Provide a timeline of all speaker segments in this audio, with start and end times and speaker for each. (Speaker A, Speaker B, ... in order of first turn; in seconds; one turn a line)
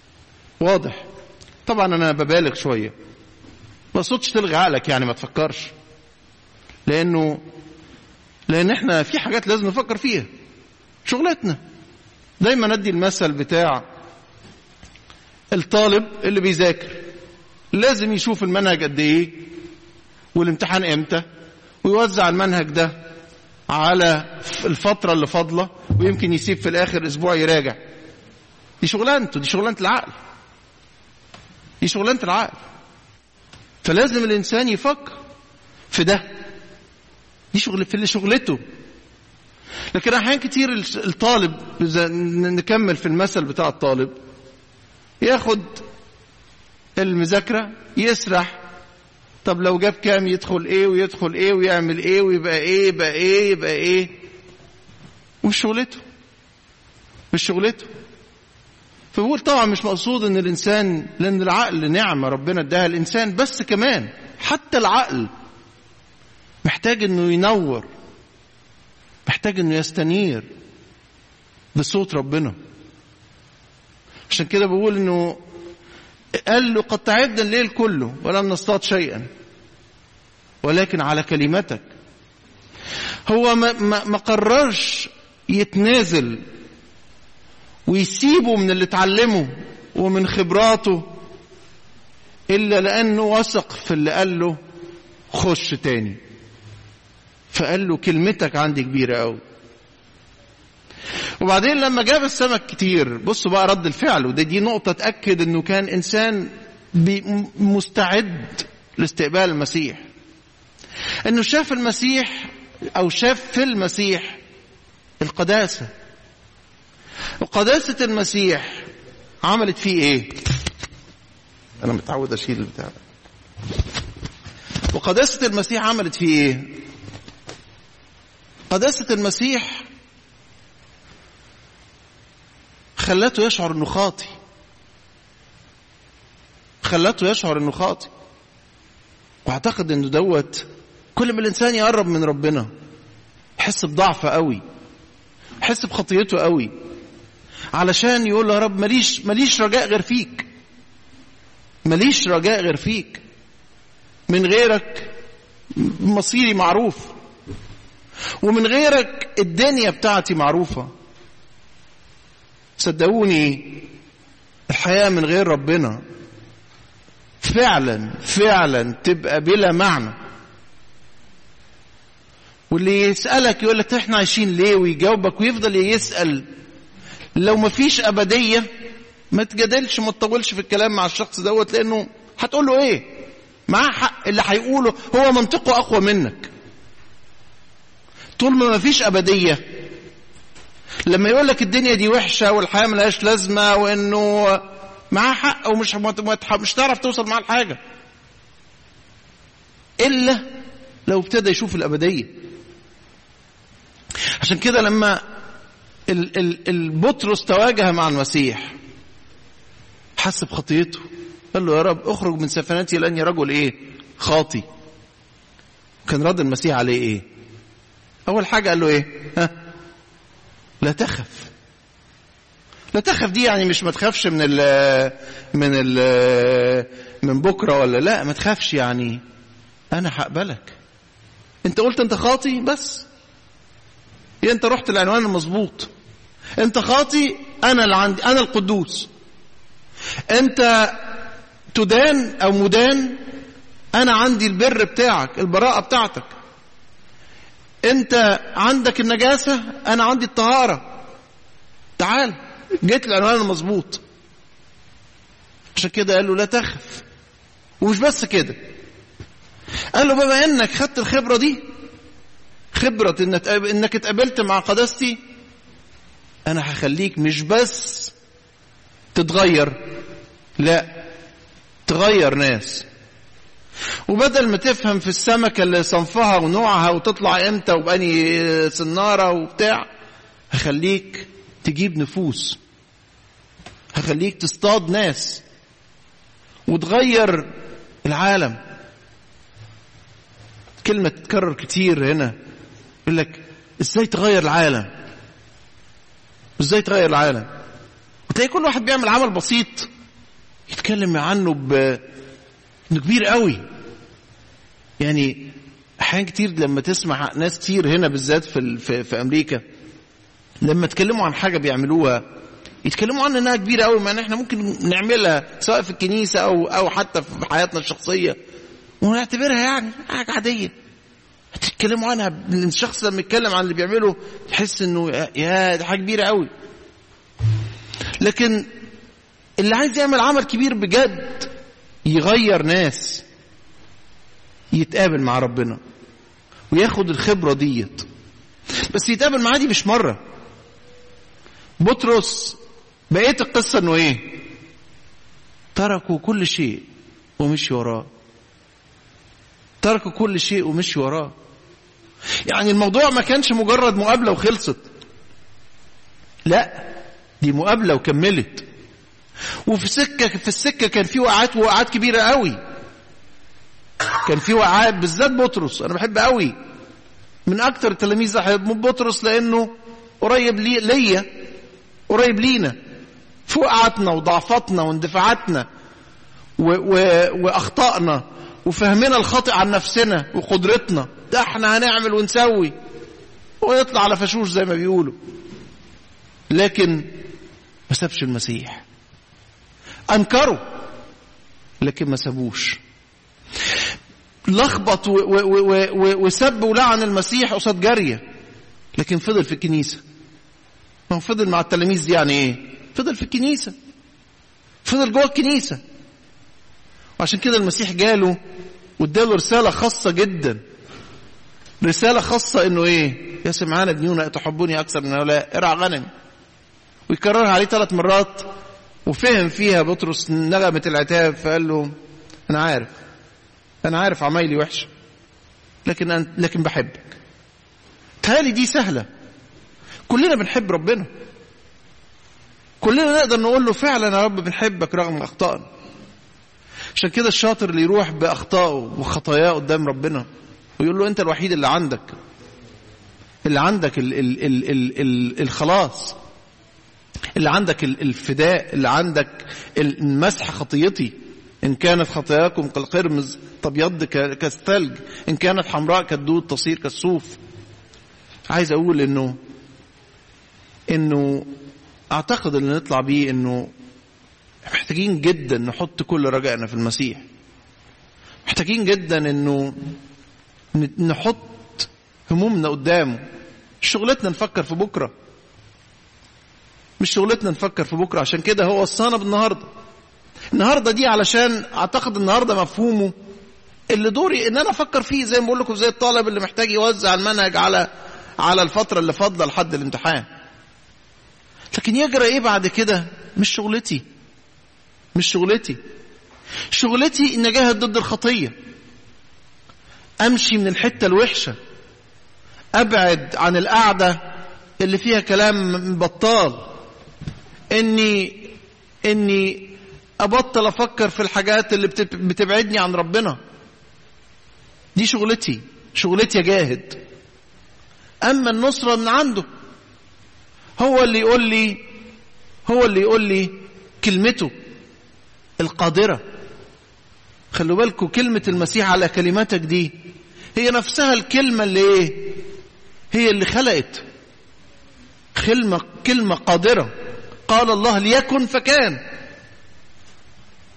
Speaker A: 0.6-1.0
Speaker A: 1.7-2.9
Speaker A: 3.9-5.7
Speaker A: 6.9-7.4
Speaker A: 8.5-10.3
Speaker A: 11.1-11.6
Speaker A: 12.4-13.8
Speaker A: 15.5-17.0
Speaker A: 17.7-19.5
Speaker A: 20.4-21.2
Speaker A: 21.8-22.9
Speaker A: 23.7-27.8
Speaker A: 28.8-30.1
Speaker A: 31.8-32.6
Speaker A: 33.8-35.2
Speaker A: 35.9-36.3
Speaker A: 37.5-38.6
Speaker A: 39.9-44.1
Speaker A: 45.2-45.8
Speaker A: 47.0-48.6
Speaker A: 49.4-54.1
Speaker A: 55.4-56.0
Speaker A: 57.3-57.9
Speaker A: 59.1-65.3
Speaker A: 66.6-67.9
Speaker A: 69.3-70.5
Speaker A: 71.8-72.5
Speaker A: 74.3-75.4
Speaker A: 76.5-79.3
Speaker A: 80.6-81.8
Speaker A: 83.3-86.4
Speaker A: 87.9-91.0
Speaker A: 92.5-94.6
Speaker A: 95.3-96.2
Speaker A: 97.5-99.4
Speaker A: 101.4-110.1
Speaker A: 111.2-114.4
Speaker A: 115.2-115.9
Speaker A: 117.4-118.9
Speaker A: 119.4-120.4
Speaker A: 121.8-123.0
Speaker A: 124.9-126.7
Speaker A: 128.7-129.9
Speaker A: 133.0-134.3
Speaker A: 136.8-138.1
Speaker A: 139.4-142.7
Speaker A: 143.6-144.6
Speaker A: 145.6-146.7
Speaker A: 147.7-150.5
Speaker A: 151.8-153.2
Speaker A: 154.3-155.1
Speaker A: 155.7-157.1
Speaker A: 158.4-160.9
Speaker A: 162.8-163.9
Speaker A: 164.7-166.0
Speaker A: 167.4-170.1
Speaker A: 172.7-176.4
Speaker A: 177.4-178.7
Speaker A: 179.3-183.1
Speaker A: 183.7-186.5
Speaker A: 188.4-189.6
Speaker A: 191.1-197.8
Speaker A: 200.0-200.4
Speaker A: 201.1-202.3
Speaker A: 204.4-205.2
Speaker A: 206.1-208.8
Speaker A: 210.2-214.7
Speaker A: 216.1-217.2
Speaker A: 218.3-219.5
Speaker A: 220.8-221.5
Speaker A: 222.9-229.2
Speaker A: 229.9-230.8
Speaker A: 231.6-233.1
Speaker A: 234.4-235.9
Speaker A: 236.6-239.1
Speaker A: 240.3-241.0
Speaker A: 241.7-243.2
Speaker A: 243.9-246.3
Speaker A: 247.9-250.9
Speaker A: 252.0-254.0
Speaker A: 255.8-257.0
Speaker A: 257.8-258.6
Speaker A: 259.9-261.6
Speaker A: 262.7-265.2
Speaker A: 266.4-268.1
Speaker A: 269.1-269.8
Speaker A: 270.6-270.9
Speaker A: 271.9-272.9
Speaker A: 274.1-279.9
Speaker A: 280.5-282.6
Speaker A: 283.9-285.4
Speaker A: 286.7-287.5
Speaker A: 288.0-288.6
Speaker A: 290.8-292.3
Speaker A: 293.1-294.9
Speaker A: 296.6-297.5
Speaker A: 298.3-299.9
Speaker A: 300.7-302.0
Speaker A: 302.9-303.6
Speaker A: 305.0-309.6
Speaker A: 310.6-312.2
Speaker A: 312.8-318.4
Speaker A: 319.0-320.7
Speaker A: 321.5-326.5
Speaker A: 328.2-328.7
Speaker A: 329.6-331.5
Speaker A: 332.1-333.2
Speaker A: 334.7-335.8
Speaker A: 336.7-338.1
Speaker A: 338.9-340.2
Speaker A: 341.8-342.6
Speaker A: 343.1-344.4
Speaker A: 345.8-346.9
Speaker A: 347.4-348.1
Speaker A: 349.8-351.3
Speaker A: 352.5-354.8
Speaker A: 356.5-358.6
Speaker A: 359.7-362.6
Speaker A: 364.2-366.5
Speaker A: 367.5-371.3
Speaker A: 372.1-372.8
Speaker A: 373.5-375.7
Speaker A: 376.6-382.7
Speaker A: 383.6-385.1
Speaker A: 386.5-387.1
Speaker A: 387.9-388.8
Speaker A: 390.1-390.6
Speaker A: 391.8-392.8
Speaker A: 394.5-398.2
Speaker A: 398.9-400.0
Speaker A: 401.1-403.7
Speaker A: 404.9-405.8
Speaker A: 407.2-408.4
Speaker A: 409.0-410.6
Speaker A: 411.8-416.1
Speaker A: 417.1-418.5
Speaker A: 419.1-421.9
Speaker A: 422.5-423.0
Speaker A: 423.8-424.9
Speaker A: 425.9-427.2
Speaker A: 428.2-429.1
Speaker A: 430.1-431.1
Speaker A: 432.8-435.7
Speaker A: 437.0-440.2
Speaker A: 440.8-442.1
Speaker A: 443.5-446.2
Speaker A: 447.4-457.4
Speaker A: 458.5-459.4
Speaker A: 460.9-461.5
Speaker A: 462.1-463.7
Speaker A: 464.7-467.2
Speaker A: 468.5-469.8
Speaker A: 470.7-473.2
Speaker A: 473.8-475.1
Speaker A: 477.0-479.7
Speaker A: 480.5-483.1
Speaker A: 483.9-487.9
Speaker A: 488.4-490.3
Speaker A: 491.7-494.0
Speaker A: 495.1-495.8
Speaker A: 496.7-498.5
Speaker A: 500.2-501.6
Speaker A: 502.8-504.2
Speaker A: 504.8-506.7
Speaker A: 507.7-508.5
Speaker A: 509.1-513.4
Speaker A: 515.0-517.0
Speaker A: 518.2-519.5
Speaker A: 520.8-521.8
Speaker A: 522.7-524.5
Speaker A: 525.6-526.2
Speaker A: 527.5-529.9
Speaker A: 530.6-532.4
Speaker A: 533.1-534.0
Speaker A: 535.4-536.9
Speaker A: 537.5-539.0